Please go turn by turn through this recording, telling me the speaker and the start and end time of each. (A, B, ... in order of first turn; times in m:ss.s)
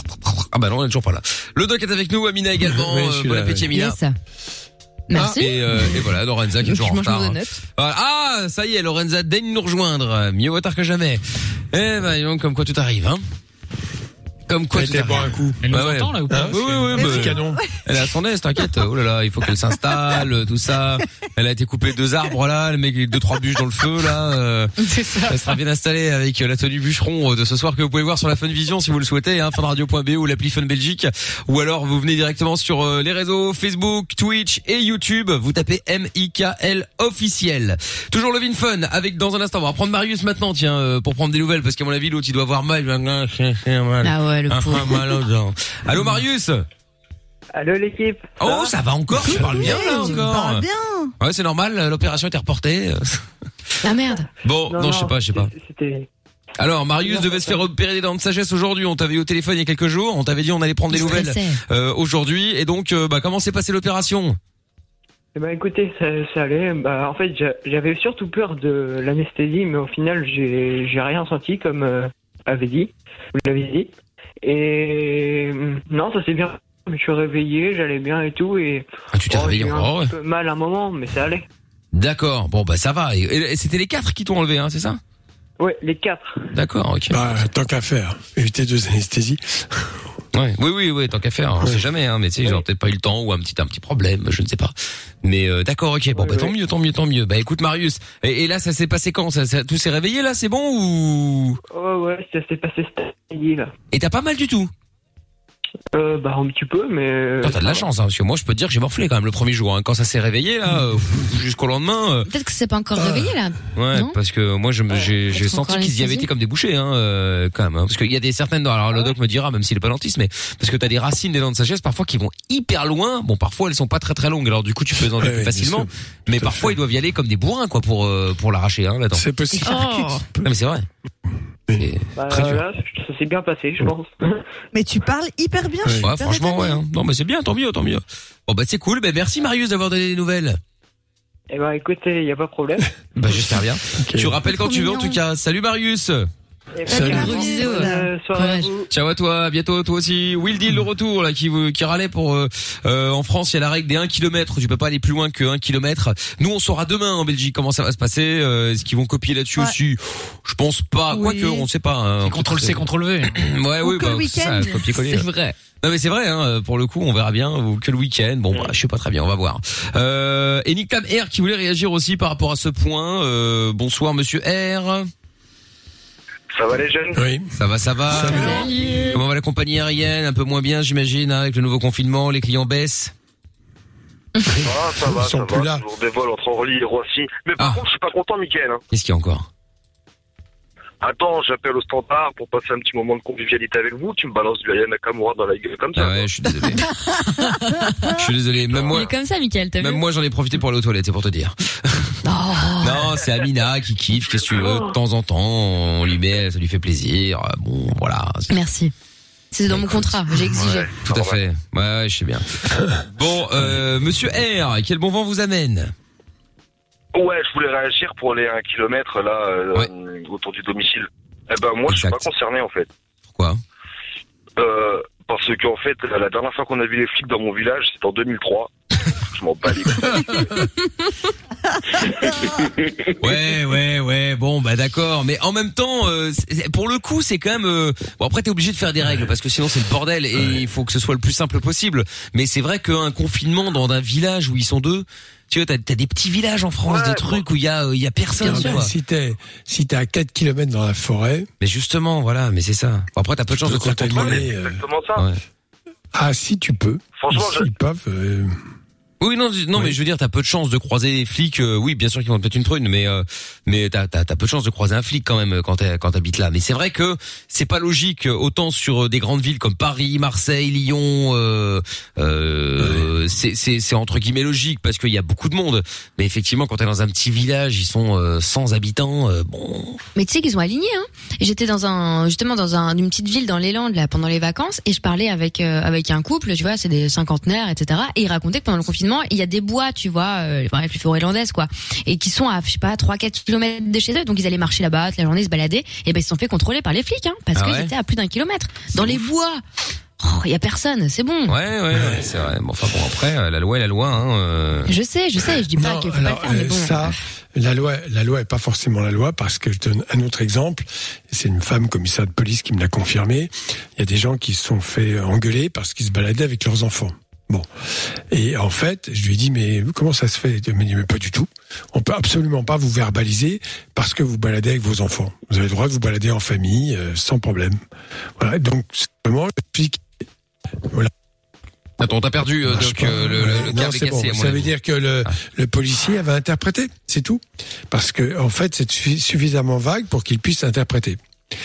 0:00.3-0:04.0 A
0:02.6-0:03.7 B
0:03.7-0:04.1 C
0:05.1-0:06.0 C
0:05.2-0:13.2 A
0:06.6-0:07.6 C
0:14.5-0:24.7 A
0:14.7-0:15.6 B
0:15.6-0:17.2 D
0:16.3-0:17.6 B
0:17.0-0:17.9 E
0:24.8-0:25.6 D
0:25.3-0:46.6 A
0:44.0-0:45.0 C
0:47.5-0:48.7 F
0:48.4-0:50.7 A
0:49.3-0:51.1 E
0:51.2-0:53.2 A
0:53.8-0:54.3 C
0:54.4-0:55.5 A
0:54.7-0:56.1 F
0:56.6-1:04.4 A
0:57.0-0:57.6 F
1:00.9-1:01.6 C
1:05.4-1:13.9 F
1:14.4-1:21.5 F
1:19.1-1:20.1 A
1:21.9-1:25.0 A
1:25.6-1:26.5 F
1:26.5-1:27.3 A
1:27.1-1:30.1 B
1:30.3-1:41.6 A
1:36.2-1:36.5 F
1:41.7-1:43.7 F
1:43.9-1:44.7 A
1:45.9-1:47.9 F
1:47.4-1:52.3 A
1:52.3-1:54.2 C
1:53.0-1:53.4 B
1:53.8-2:09.2 A
1:55.3-1:56.3 C
2:05.2-2:06.8 B
2:09.1-2:10.5 B
2:09.6-2:10.2 C
2:10.4-2:10.9 A
2:11.8-2:12.6 A
2:12.2-2:14.4 F
2:14.7-2:16.8 E
2:16.0-2:20.6 A
2:21.5-2:22.9 F
2:23.2-2:26.3 A
2:23.9-2:24.4 B
2:24.5-2:25.2 E
2:26.8-2:28.9 F
2:26.9-2:28.1 E
2:26.9-2:27.3 B
2:27.0-2:28.7 C
2:28.9-2:45.3 A
2:41.1-2:41.6 E
2:42.2-2:43.4 D
2:43.8-2:44.9 E
2:45.8-2:55.1 A
2:56.5-2:57.2 G
2:57.2-2:57.5 B
2:57.6-3:03.1 A
2:58.1-2:58.6 B
3:04.6-3:05.8 B
3:04.6-3:08.8 G
3:08.9-3:09.5 A
3:11.0-3:16.3 G
3:16.0-3:16.8 A
3:18.1-3:19.1 A
3:18.7-3:19.0 G
3:18.9-3:20.0 C
3:19.8-3:22.2 A
3:22.2-3:23.1 C
3:22.8-3:28.5 A
3:24.3-3:24.8 G
3:28.5-3:28.9 C
3:29.5-3:30.9 C
3:29.7-3:35.9 A
3:30.6-3:31.4 G
3:37.1-3:42.9 G
3:41.9-3:42.3 A
3:43.3-3:43.6 A
3:44.6-3:48.7 G
3:49.3-3:50.5 G
3:52.2-3:52.7 G
3:53.2-4:08.9 A
4:06.9-4:07.4 G
4:08.4-4:08.8 C
4:08.4-4:11.5 B
4:11.6-4:14.5 A
4:13.6-4:14.8 B
4:13.9-4:15.2 G
4:16.1-4:18.6 B
4:17.2-4:17.7 G
4:19.2-4:40.0 A
4:32.8-4:33.1 B
4:40.2-4:59.6 C
4:57.6-4:57.9 A
5:00.2-5:01.6 C
5:01.5-5:04.9 A
5:01.9-5:02.3 B
5:04.9-5:07.2 C
5:05.7-5:17.7 B
5:18.3-5:27.8 B
5:28.4-5:30.0 B
5:32.0-5:34.7 A
5:32.7-5:41.2 B